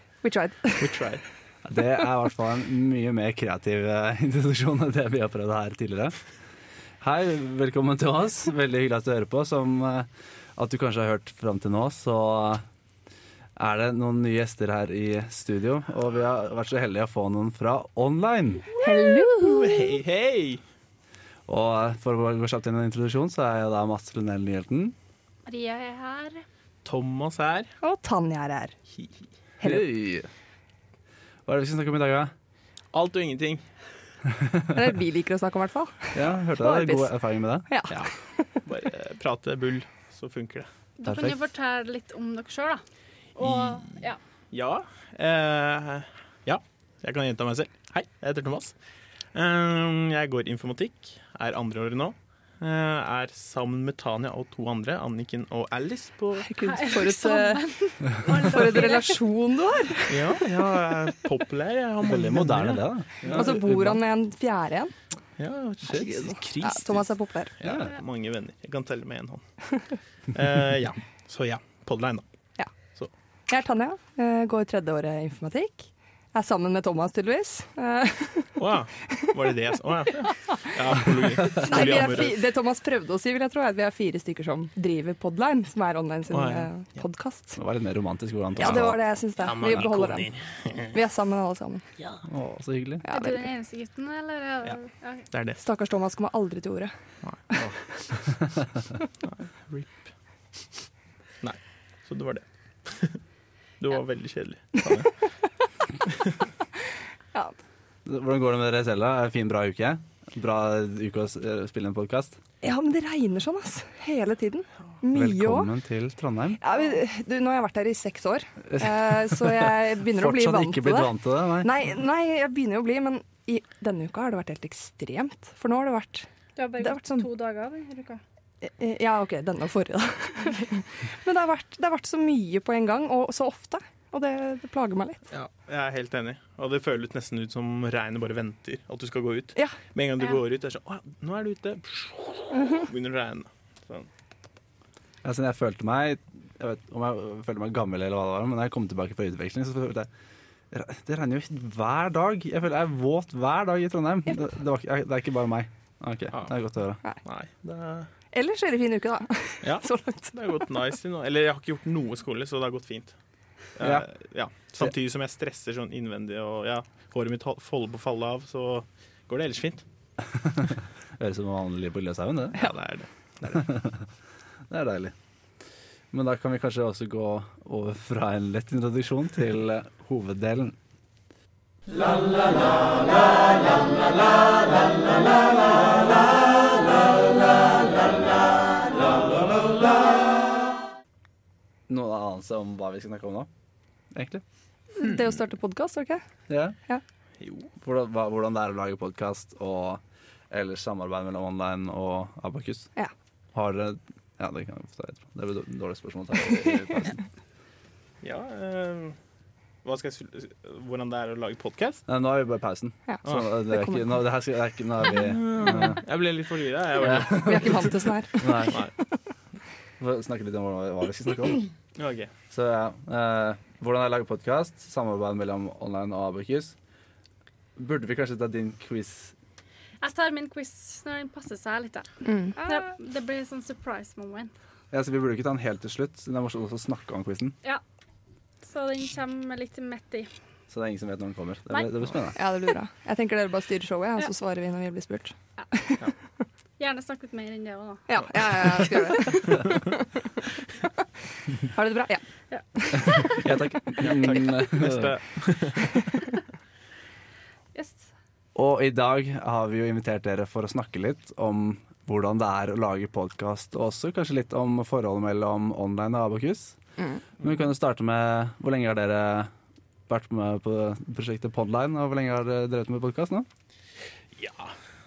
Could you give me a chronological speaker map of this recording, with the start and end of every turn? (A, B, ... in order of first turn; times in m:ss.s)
0:00.2-0:01.0 A
0:00.8-0:01.2 B
0:01.6-0:06.2 C
0:07.0-0:12.6 C
0:13.6-0:18.7 C
0:18.8-0:19.9 A
0:18.8-0:20.6 B
0:21.5-0:24.9 C
0:25.4-0:26.4 D
0:26.8-0:27.7 B
0:27.8-0:28.7 A
0:29.6-0:29.9 A
0:29.6-0:30.3 C
0:31.4-0:32.3 C
0:32.9-0:33.6 B
0:34.4-0:34.7 C
0:34.7-0:37.1 A
0:36.1-0:37.7 C
0:37.7-0:38.6 A
0:38.6-0:40.7 B
0:41.0-0:42.8 D
0:41.0-0:41.4 C
0:43.4-0:44.2 D
0:43.4-0:43.9 B
0:44.5-0:48.7 B
0:49.3-0:56.5 B
0:56.4-1:00.4 A
0:56.6-0:59.2 D
1:00.1-1:03.5 B
1:02.0-1:04.0 C
1:03.3-1:04.9 A
1:05.4-1:07.1 B
1:05.8-1:07.5 A
1:07.6-1:09.4 B
1:07.6-1:07.9 C
1:10.3-1:12.2 B
1:13.5-1:18.6 A
1:18.6-1:22.4 B
1:21.5-1:27.6 A
1:26.3-1:26.7 B
1:27.6-1:29.0 C
1:28.6-1:30.3 A
1:29.4-1:30.9 B
1:30.9-1:31.8 A
1:32.2-1:33.0 C
1:33.0-1:33.5 A
1:33.1-1:35.3 D
1:35.3-1:35.6 B
1:35.6-1:36.9 A
1:39.2-1:39.9 B
1:41.4-1:43.2 B
1:43.8-1:45.1 B
1:48.0-1:52.4 C
1:52.6-1:55.7 A
1:55.1-1:56.6 C
1:56.6-2:06.3 A
1:58.7-2:01.7 C
2:06.6-2:08.2 D
2:06.8-2:07.3 A
2:08.6-2:15.2 A
2:15.3-2:24.1 B
2:22.5-2:22.9 A
2:25.2-2:30.1 C
2:30.7-2:37.0 C
2:37.2-2:38.1 B
2:38.3-2:40.6 A
2:39.6-2:43.1 B
2:43.8-2:49.8 B
2:43.8-2:44.0 C
2:50.2-2:52.7 C
2:52.5-2:53.7 B
2:53.5-2:54.0 C
2:54.7-2:55.1 C
2:56.1-3:00.8 C
3:09.4-3:09.8 C
3:11.9-3:13.5 C
3:14.1-3:14.4 C
3:14.9-3:16.2 A
3:16.5-3:16.8 C
3:17.4-3:17.7 B
3:17.8-3:22.9 C
3:23.5-3:27.2 C
3:28.2-3:29.2 B
3:29.8-3:32.0 B
3:32.1-3:36.0 C
3:33.1-3:34.0 A
3:35.1-3:38.0 B
3:37.0-3:37.4 C
3:37.3-3:38.8 A
3:38.4-3:38.8 C
3:40.0-3:41.7 C
3:42.0-3:42.3 B
3:42.5-3:46.7 C
3:47.8-3:49.3 C
3:50.0-3:52.1 D
3:52.2-3:52.8 A
3:52.6-3:54.5 D
3:54.9-3:57.6 C
3:58.6-4:00.3 D
4:00.7-4:02.4 C
4:01.7-4:02.0 D
4:02.3-4:05.3 A
4:06.8-4:08.0 D
4:08.1-4:10.0 A
4:11.6-4:12.2 A
4:12.5-4:13.4 D
4:13.4-4:15.1 C
4:13.4-4:16.1 B
4:17.7-4:18.0 D
4:18.5-4:26.8 C
4:27.4-4:29.5 C
4:30.1-4:33.5 C
4:34.3-4:34.7 B